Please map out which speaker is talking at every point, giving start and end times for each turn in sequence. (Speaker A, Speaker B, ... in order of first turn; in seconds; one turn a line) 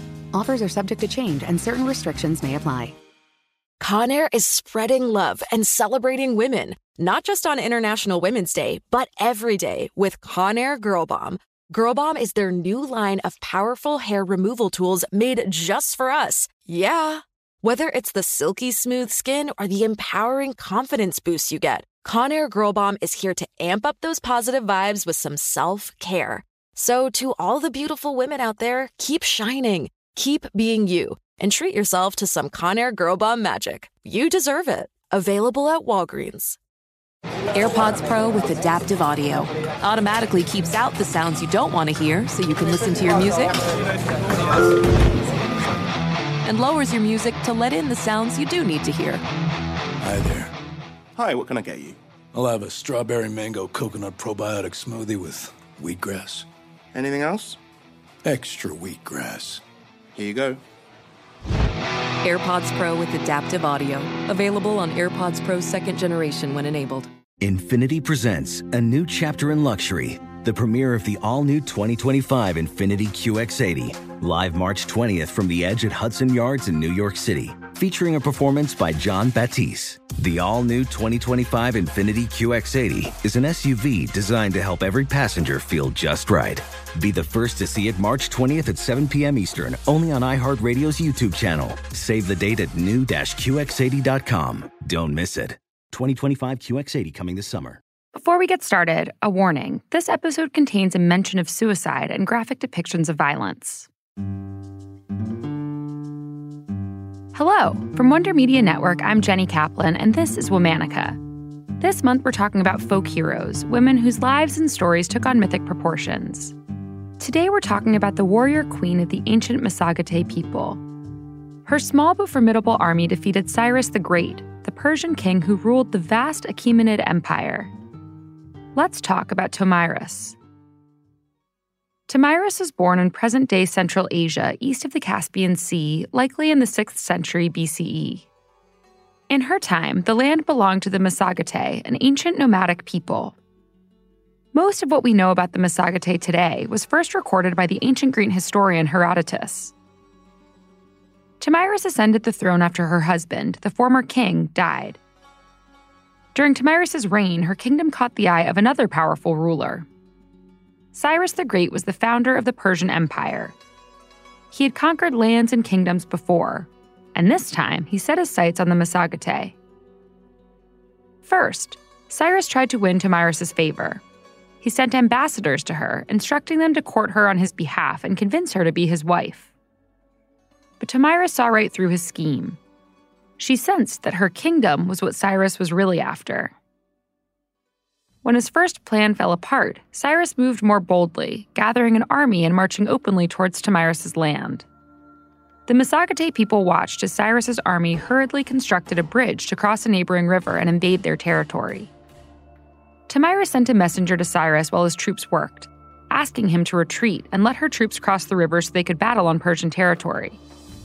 Speaker A: 0.3-2.9
Speaker B: 3.8-36.6
Speaker B: 37.5-43.6
Speaker B: 46.4-49.2
Speaker C: 50.0-50.5
Speaker D: 51.1-52.0
Speaker C: 52.3-56.5
Speaker D: 56.9-57.6
Speaker C: 58.2-59.6
Speaker D: 60.1-60.6
Speaker B: 62.2-67.1
Speaker E: 67.4-97.8
Speaker F: 98.1-103.9
Speaker F: 107.3-111.2
Speaker F: 111.8-116.5
Speaker F: 117.2-120.8
Speaker F: 121.7-127.7
Speaker F: 128.7-130.4
Speaker F: 132.1-138.3
Speaker F: 139.3-143.3
Speaker F: 144.5-149.7
Speaker F: 151.4-155.0
Speaker F: 156.3-159.8
Speaker F: 160.9-163.5
Speaker F: 164.5-169.5
Speaker F: 171.2-174.0
Speaker F: 174.6-179.5
Speaker F: 180.8-182.6
Speaker F: 183.4-186.5
Speaker F: 188.2-194.6
Speaker F: 195.7-201.9
Speaker F: 203.1-210.4